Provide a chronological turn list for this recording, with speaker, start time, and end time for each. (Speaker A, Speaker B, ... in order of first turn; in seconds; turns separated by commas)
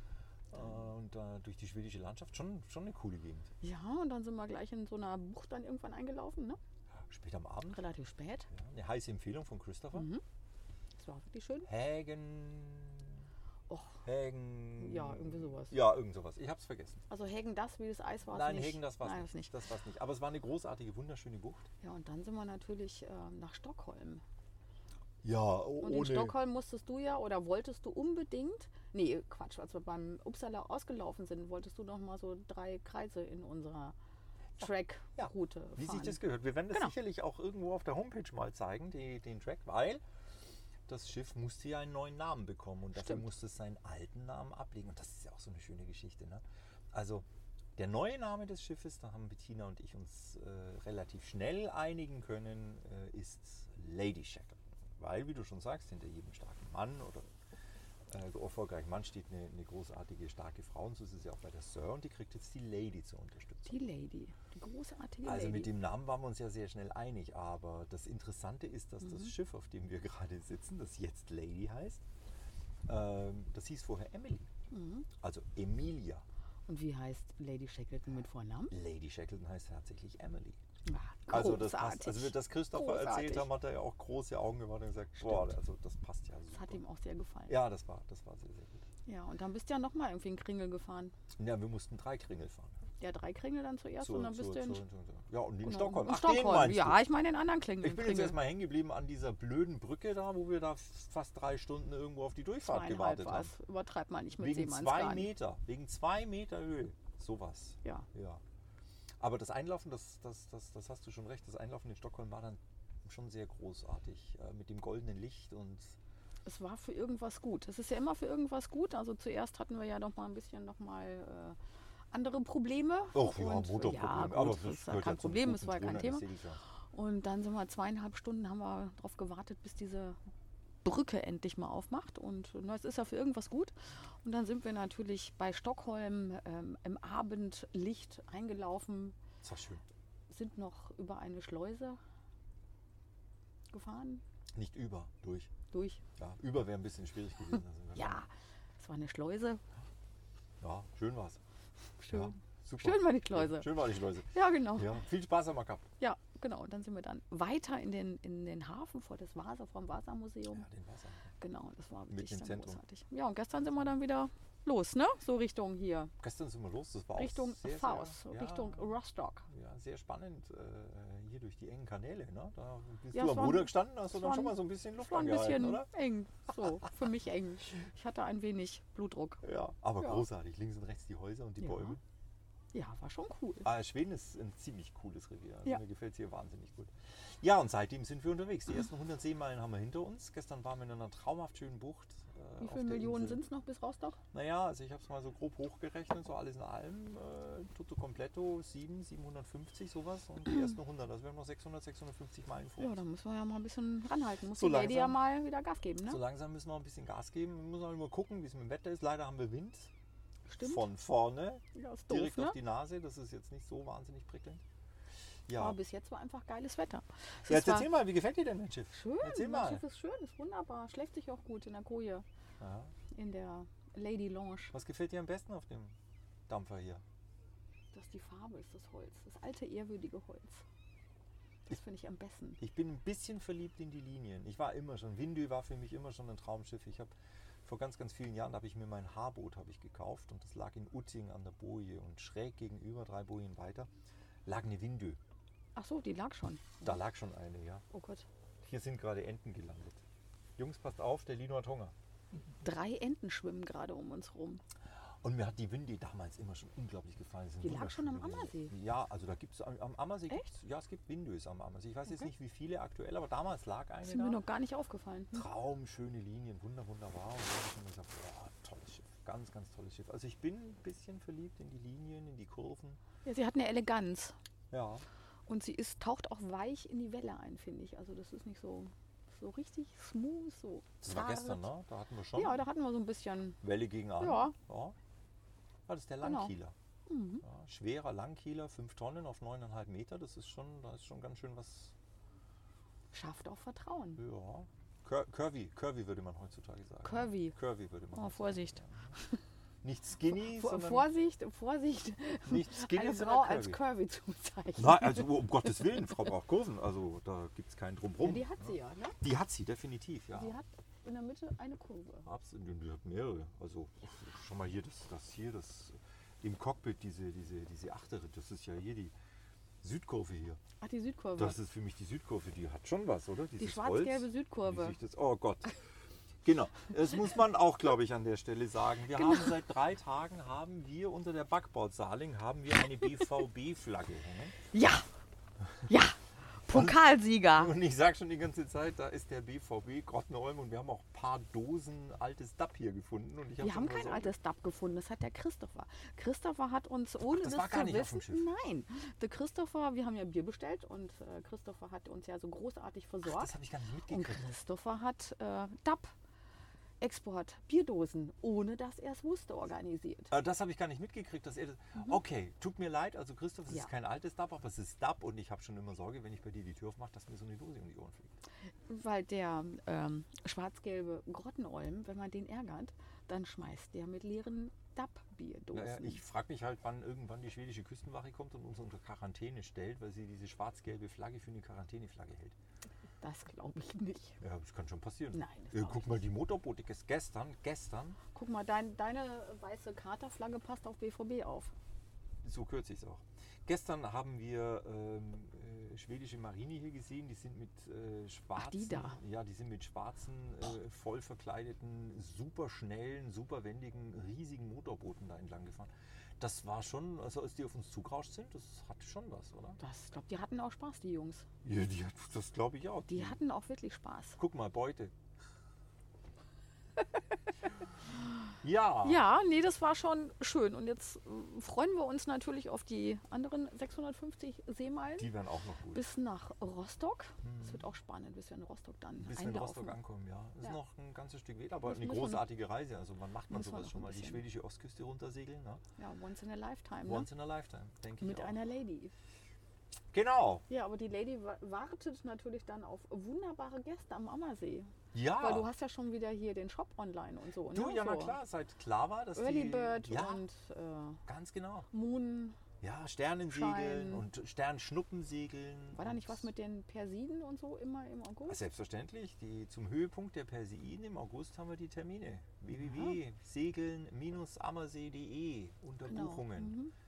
Speaker A: 0.5-3.5, Speaker B: 3.6-6.6, Speaker A: 7.1-7.8, Speaker B: 7.7-8.5, Speaker A: 8.5-10.1, Speaker B: 9.9-10.2, Speaker B: 10.9-11.7, Speaker A: 11.7-13.2, Speaker B: 13.7-14.0, Speaker A: 14.0-17.0, Speaker B: 14.8-15.8, Speaker B: 17.1-19.5, Speaker A: 18.3-21.7, Speaker B: 21.8-24.2, Speaker A: 25.2-26.4, Speaker B: 25.8-33.9, Speaker B: 34.6-36.2, Speaker A: 35.2-40.0, Speaker A: 40.9-47.2, Speaker B: 43.0-43.2, Speaker A: 47.8-57.3, Speaker A: 58.1-63.7, Speaker B: 63.7-65.8, Speaker A: 65.2-72.0, Speaker B: 69.0-69.3, Speaker A: 72.9-74.5, Speaker B: 74.7-75.1, Speaker A: 75.2-76.2, Speaker B: 76.7-78.7, Speaker A: 78.7-80.6, Speaker B: 80.8-83.5, Speaker A: 81.3-86.8, Speaker B: 85.2-85.5, Speaker B: 86.5-87.5, Speaker A: 87.5-88.8, Speaker B: 89.0-91.1, Speaker A: 91.4-92.8, Speaker B: 93.0-94.8, Speaker A: 94.0-97.0, Speaker B: 95.6-98.4, Speaker A: 97.8-103.5, Speaker B: 102.6-105.3, Speaker A: 104.4-108.4, Speaker A: 109.2-116.0, Speaker B: 116.5-121.6, Speaker B: 122.1-126.2, Speaker A: 123.1-126.6, Speaker B: 126.9-130.2, Speaker B: 130.8-139.2, Speaker A: 139.4-139.8, Speaker B: 140.3-142.0, Speaker B: 143.7-144.2, Speaker A: 144.6-145.5, Speaker B: 145.7-146.0, Speaker A: 146.2-148.2, Speaker B: 147.9-148.3, Speaker B: 148.8-149.6, Speaker A: 150.6-151.4, Speaker B: 152.0-155.0, Speaker A: 152.1-155.9, Speaker B: 156.0-160.7, Speaker A: 160.5-161.3, Speaker B: 161.4-166.1, Speaker A: 162.1-162.8, Speaker A: 166.2-168.9, Speaker B: 167.2-169.4, Speaker A: 169.5-175.9, Speaker B: 173.1-179.4, Speaker A: 179.4-182.0, Speaker B: 181.6-182.0, Speaker B: 182.7-183.7, Speaker A: 183.6-193.4, Speaker B: 192.6-194.2, Speaker A: 194.3-203.0, Speaker B: 202.8-206.2, Speaker A: 204.5-205.2, Speaker A: 206.1-209.9, Speaker B: 210.5-210.8, Speaker A: 210.6-214.6, Speaker B: 211.7-212.6, Speaker A: 215.5-215.8, Speaker B: 215.5-217.9, Speaker A: 217.5-219.8, Speaker B: 218.9-222.2, Speaker A: 222.6-222.9, Speaker B: 223.1-224.7, Speaker A: 224.7-225.9, Speaker A: 226.5-227.0, Speaker B: 227.9-230.6, Speaker B: 231.7-232.6, Speaker A: 232.6-237.1, Speaker A: 237.6-243.9, Speaker A: 244.4-245.2, Speaker B: 245.8-247.0, Speaker A: 246.8-247.8, Speaker B: 247.9-248.3, Speaker A: 248.6-250.0, Speaker A: 250.6-251.9, Speaker B: 252.6-254.6, Speaker A: 255.2-264.4, Speaker B: 257.6-258.7, Speaker B: 264.0-265.4, Speaker A: 265.3-273.0, Speaker B: 273.2-274.3, Speaker A: 274.7-275.0, Speaker B: 275.5-281.7, Speaker A: 281.0-282.6, Speaker B: 282.3-283.6, Speaker A: 283.6-284.9, Speaker B: 284.2-284.5, Speaker A: 285.9-286.8, Speaker B: 286.2-286.5, Speaker B: 287.1-287.4, Speaker A: 287.4-291.9, Speaker B: 293.1-294.2, Speaker A: 294.1-299.2, Speaker B: 297.0-297.6, Speaker B: 298.1-299.4, Speaker A: 299.8-301.1, Speaker B: 300.3-305.7, Speaker A: 302.4-303.8, Speaker A: 304.8-310.6, Speaker B: 308.2-309.2, Speaker B: 310.3-312.3, Speaker A: 312.2-319.1, Speaker A: 319.8-320.6, Speaker B: 320.8-321.6, Speaker A: 321.4-325.8, Speaker B: 323.6-325.0, Speaker A: 326.4-334.6, Speaker B: 329.1-329.5, Speaker B: 334.7-335.1, Speaker B: 335.9-337.7, Speaker A: 336.7-344.3, Speaker B: 343.6-353.5, Speaker A: 347.3-348.5, Speaker A: 353.2-354.5, Speaker B: 354.1-356.1, Speaker B: 357.0-360.3, Speaker A: 360.3-368.3, Speaker B: 368.9-376.2, Speaker A: 375.7-382.5, Speaker B: 383.2-384.4, Speaker A: 384.4-388.2, Speaker B: 385.3-386.2, Speaker B: 388.3-391.7, Speaker A: 392.4-409.8, Speaker B: 398.6-399.2, Speaker B: 409.8-411.5, Speaker A: 411.6-413.4, Speaker B: 413.1-414.4, Speaker A: 414.4-415.1, Speaker A: 418.6-419.2, Speaker B: 419.0-425.3, Speaker A: 425.2-426.1, Speaker B: 425.9-430.0, Speaker A: 427.4-427.8, Speaker A: 429.2-435.8, Speaker B: 431.9-432.5, Speaker B: 433.5-434.4, Speaker B: 436.0-437.3, Speaker A: 437.0-438.6, Speaker B: 438.2-439.1, Speaker A: 440.1-440.6, Speaker B: 440.7-448.4, Speaker A: 445.1-445.7, Speaker A: 447.7-450.4, Speaker B: 449.4-451.2, Speaker A: 451.2-451.9, Speaker B: 451.9-452.6, Speaker A: 452.8-456.5, Speaker B: 453.5-454.2, Speaker B: 455.9-458.6, Speaker A: 458.5-466.8, Speaker B: 462.8-463.2, Speaker B: 466.1-466.9